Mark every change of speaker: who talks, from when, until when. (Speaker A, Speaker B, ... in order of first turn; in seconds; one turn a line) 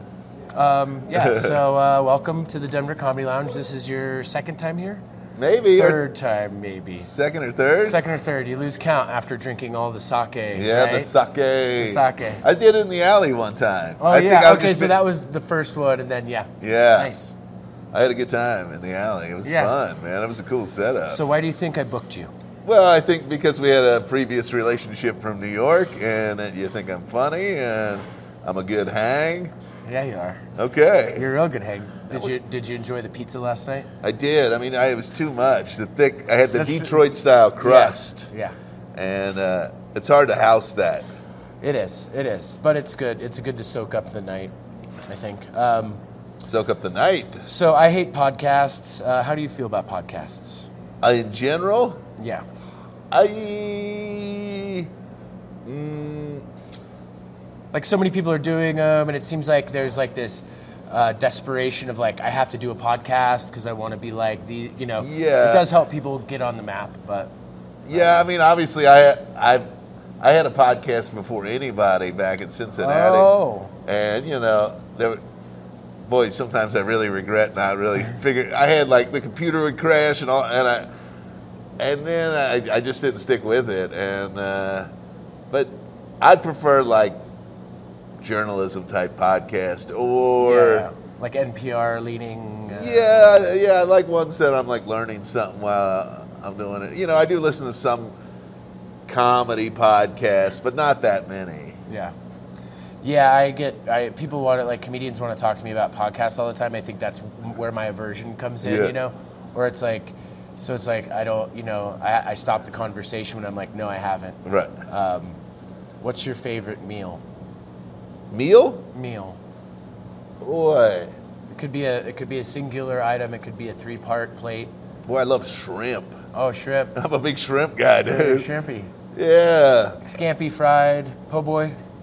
Speaker A: 0.5-5.0
Speaker B: 1.1-1.6
Speaker B: 5.4-6.0
Speaker A: 5.7-7.1
Speaker B: 7.1-8.0
Speaker A: 7.8-11.1
Speaker B: 10.5-15.0
Speaker A: 11.8-12.4
Speaker A: 14.0-17.3
Speaker B: 16.6-17.1
Speaker B: 17.9-21.2
Speaker A: 19.4-19.7
Speaker A: 21.1-22.3
Speaker B: 22.6-29.5
Speaker A: 29.9-30.4
Speaker B: 30.6-31.3
Speaker A: 31.1-33.9
Speaker B: 34.0-38.3
Speaker A: 36.5-36.9
Speaker A: 37.6-38.5
Speaker B: 38.9-41.1
Speaker A: 41.6-44.5
Speaker A: 45.1-46.0
Speaker B: 46.4-47.4
Speaker A: 47.5-50.7
Speaker B: 51.0-52.0
Speaker A: 52.2-52.4
Speaker B: 53.1-54.9
Speaker B: 55.6-56.4
Speaker A: 57.7-67.3
Speaker B: 65.0-65.7
Speaker B: 67.8-69.6
Speaker A: 67.9-68.2
Speaker B: 70.2-73.3
Speaker A: 72.8-73.7
Speaker B: 73.8-75.2
Speaker B: 76.1-80.9
Speaker B: 81.8-84.9
Speaker B: 85.5-87.2
Speaker B: 88.2-90.9
Speaker A: 90.4-93.5
Speaker B: 92.7-98.1
Speaker B: 99.1-101.8
Speaker A: 101.9-102.1
Speaker A: 103.0-115.4
Speaker B: 108.6-108.9
Speaker B: 114.4-114.7
Speaker A: 116.0-117.2
Speaker B: 118.3-118.8
Speaker A: 118.9-119.4
Speaker B: 120.4-121.1
Speaker A: 121.5-124.7
Speaker B: 125.0-126.2
Speaker A: 126.3-127.0
Speaker B: 126.9-128.5
Speaker A: 128.1-128.9
Speaker B: 129.1-130.0
Speaker A: 130.0-131.8